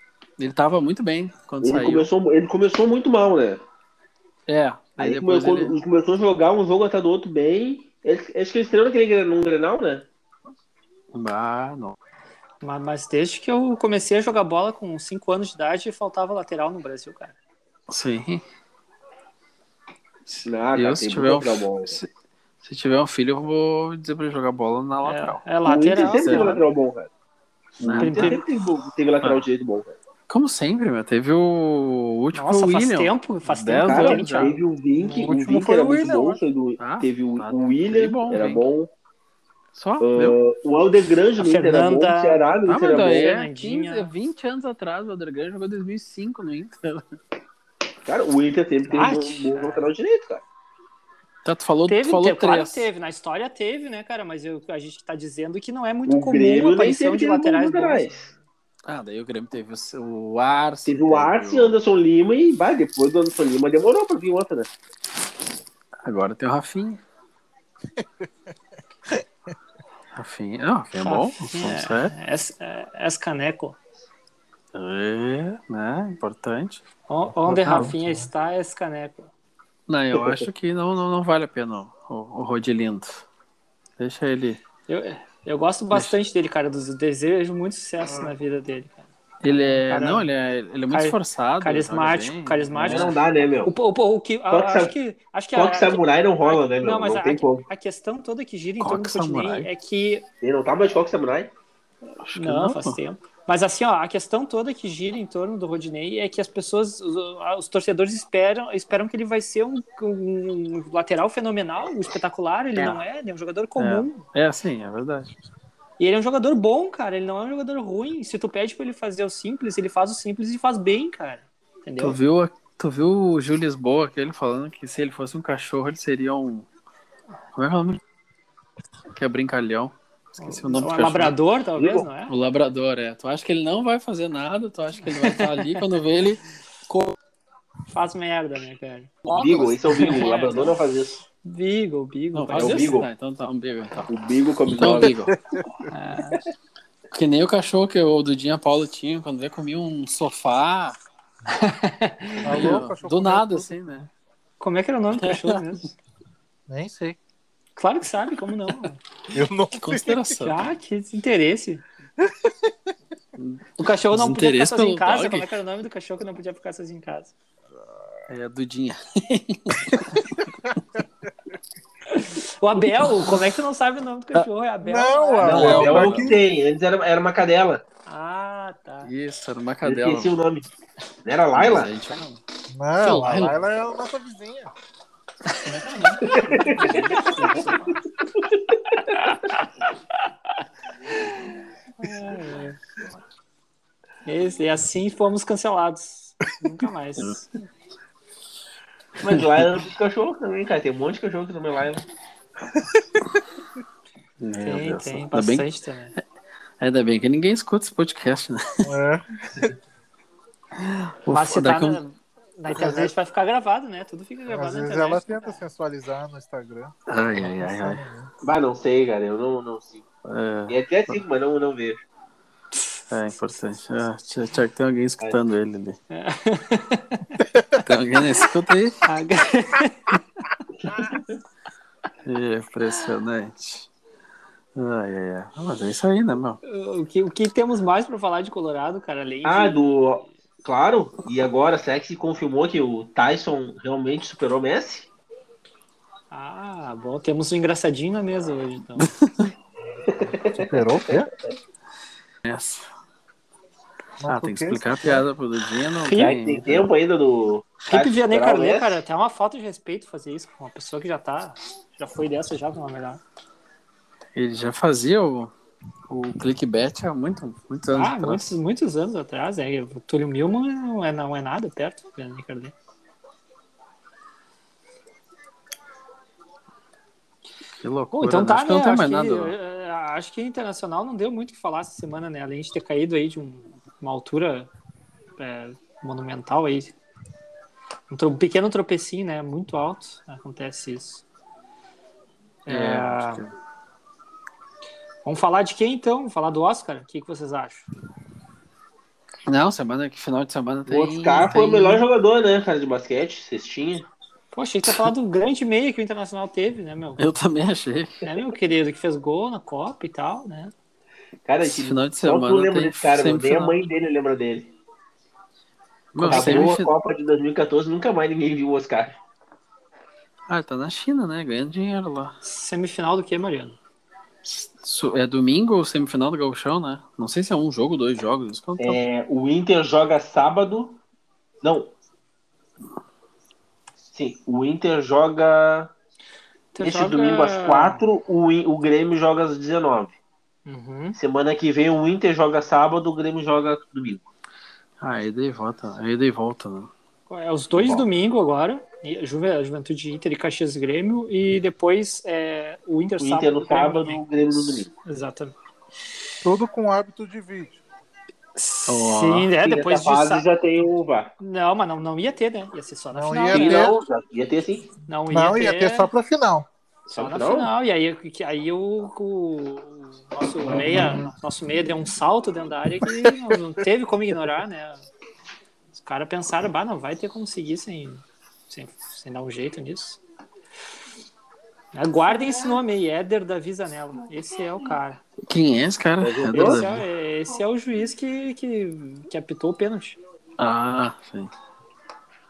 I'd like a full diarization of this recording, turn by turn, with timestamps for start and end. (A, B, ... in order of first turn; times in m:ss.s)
0:00.4-0:02.1 A
0:01.6-0:03.6 B
0:04.5-0:05.8 A
0:05.0-0:10.1 B
0:11.1-0:12.0 A
0:12.6-0:17.4 C
0:17.9-0:18.4 A
0:20.3-0:22.1 A
0:20.5-0:22.0 B
0:22.6-0:25.5 A
0:25.0-0:26.6 C
0:25.6-0:27.1 B
0:26.1-0:26.6 A
0:27.8-0:30.0 B
0:27.8-0:28.4 A
0:28.0-0:28.4 C
0:30.3-0:34.6 A
0:32.3-0:35.3 C
0:33.9-0:38.9 B
0:35.2-0:36.4 D
0:36.8-0:38.6 A
0:39.7-0:40.4 A
0:40.0-0:43.4 B
0:41.4-0:42.5 C
0:42.7-0:47.0 A
0:43.2-0:44.1 C
0:48.0-0:50.4 B
0:48.9-0:49.9 C
0:51.4-0:52.9 A
0:51.9-0:58.4 C
0:56.1-0:58.2 B
0:58.9-1:01.8 A
1:00.9-1:04.7 B
1:06.0-1:07.0 A
1:08.0-1:08.3 D
1:10.1-1:12.1 A
1:11.0-1:13.8 C
1:14.7-1:16.8 A
1:17.1-1:19.3 C
1:17.5-1:18.0 A
1:17.6-1:18.3 D
1:19.9-1:23.2 A
1:20.1-1:20.5 B
1:24.0-1:24.6 A
1:24.9-1:30.3 C
1:29.4-1:33.2 A
1:30.9-1:40.3 C
1:32.8-1:33.7 B
1:34.5-1:34.9 B
1:35.5-1:37.7 B
1:38.8-1:39.7 A
1:40.4-1:41.5 B
1:42.2-1:43.0 A
1:42.4-1:54.2 C
1:53.8-1:55.5 A
1:56.0-2:02.2 C
2:02.0-2:06.7 A
2:07.6-2:08.0 A
2:09.1-2:11.4 A
2:10.4-2:12.3 C
2:11.8-2:12.1 B
2:12.3-2:17.2 A
2:15.2-2:15.8 C
2:17.9-2:20.8 C
2:19.3-2:20.3 A
2:19.3-2:21.2 B
2:21.4-2:23.0 C
2:22.3-2:24.1 A
2:22.6-2:23.1 B
2:24.1-2:25.2 B
2:24.7-2:25.3 A
2:25.3-2:25.9 D
2:25.9-2:26.4 C
2:27.1-2:31.0 A
2:31.5-2:32.8 C
2:32.4-2:34.1 A
2:32.4-2:34.1 D
2:34.6-2:35.9 C
2:35.2-2:35.6 A
2:36.7-2:37.2 D
2:37.8-2:39.0 C
2:39.3-2:40.4 D
2:39.7-2:40.7 A
2:40.4-2:41.8 C
2:42.2-2:42.7 D
2:43.4-2:45.5 A
2:43.8-2:47.3 C
2:48.3-2:50.3 A
2:52.1-2:56.0 C
2:54.8-2:56.4 D
2:55.4-2:56.4 A
2:55.4-2:57.8 B
2:58.1-2:59.1 C
2:59.0-3:00.3 A
2:59.8-3:00.7 B
3:01.2-3:01.9 B
3:01.6-3:02.4 A
3:02.7-3:04.7 D
3:03.0-3:03.6 A
3:05.5-3:08.0 C
3:06.2-3:07.1 B
3:09.3-3:09.7 C
3:11.1-3:12.8 C
3:14.2-3:17.6 C
3:19.2-3:22.0 B
3:19.3-3:19.6 A
3:24.4-3:25.7 A
3:24.6-3:26.1 C
3:26.8-3:28.9 A
3:28.8-3:29.7 D
3:30.8-3:32.0 A
3:31.3-3:35.6 C
3:32.7-3:33.1 D
3:34.5-3:38.3 D
3:37.1-3:38.0 A
3:38.4-3:40.0 B
3:40.2-3:41.2 A
3:40.7-3:42.0 B
3:43.1-3:46.0 A
3:46.1-3:47.4 C
3:47.4-3:47.8 D
3:47.8-3:49.0 A
3:49.0-3:50.4 C
3:52.2-3:53.9 A
3:54.8-3:56.6 A
3:56.6-4:00.3 C
3:59.4-4:05.1 B
4:06.3-4:09.1 C
4:09.0-4:09.5 A
4:10.1-4:11.3 B
4:10.5-4:11.3 D
4:12.4-4:12.9 A
4:14.2-4:15.2 D
4:14.3-4:16.9 A
4:16.1-4:16.4 C
4:16.1-4:19.0 B
4:17.8-4:23.2 C
4:24.4-4:25.5 A
4:26.1-4:28.4 A
4:27.9-4:32.7 C
4:37.8-4:39.5 A
4:38.1-4:44.7 C
4:45.4-4:47.0 C
4:48.1-4:51.2 C
4:52.7-4:53.4 C
4:52.7-4:53.5 A
4:55.2-4:57.9 C
4:59.5-5:02.0 A
5:00.9-5:04.1 B
5:04.5-5:07.2 C
5:07.2-5:08.2 A
5:08.2-5:10.7 C
5:11.4-5:14.8 B
5:11.6-5:13.8 A
5:16.1-5:16.9 A
5:16.2-5:19.2 B
5:16.2-5:16.7 C
5:20.5-5:22.4 A
5:22.4-5:23.8 C
5:24.4-5:29.0 A
5:28.8-5:31.0 B
5:31.6-5:31.9 B
5:34.1-5:35.9 B
5:36.7-5:38.0 C
5:36.8-5:40.2 B
5:40.7-5:41.2 C
5:41.2-5:44.3 B
5:45.0-5:46.9 A
5:47.3-5:55.6 C
5:53.2-5:54.9 B
5:56.4-5:57.8 D
5:58.6-6:00.5 C
5:58.9-5:59.5 A
5:59.6-6:01.3 B
6:01.4-6:03.9 C
6:03.1-6:04.0 D
6:03.5-6:05.0 B
6:05.1-6:06.1 C
6:05.3-6:06.7 D
6:07.1-6:07.7 B
6:07.1-6:15.0 C
6:13.1-6:13.5 D
6:15.9-6:20.2 C
6:21.9-6:25.2 C
6:25.5-6:27.0 A
6:26.2-6:26.8 B
6:26.5-6:30.2 C
6:30.6-6:31.5 A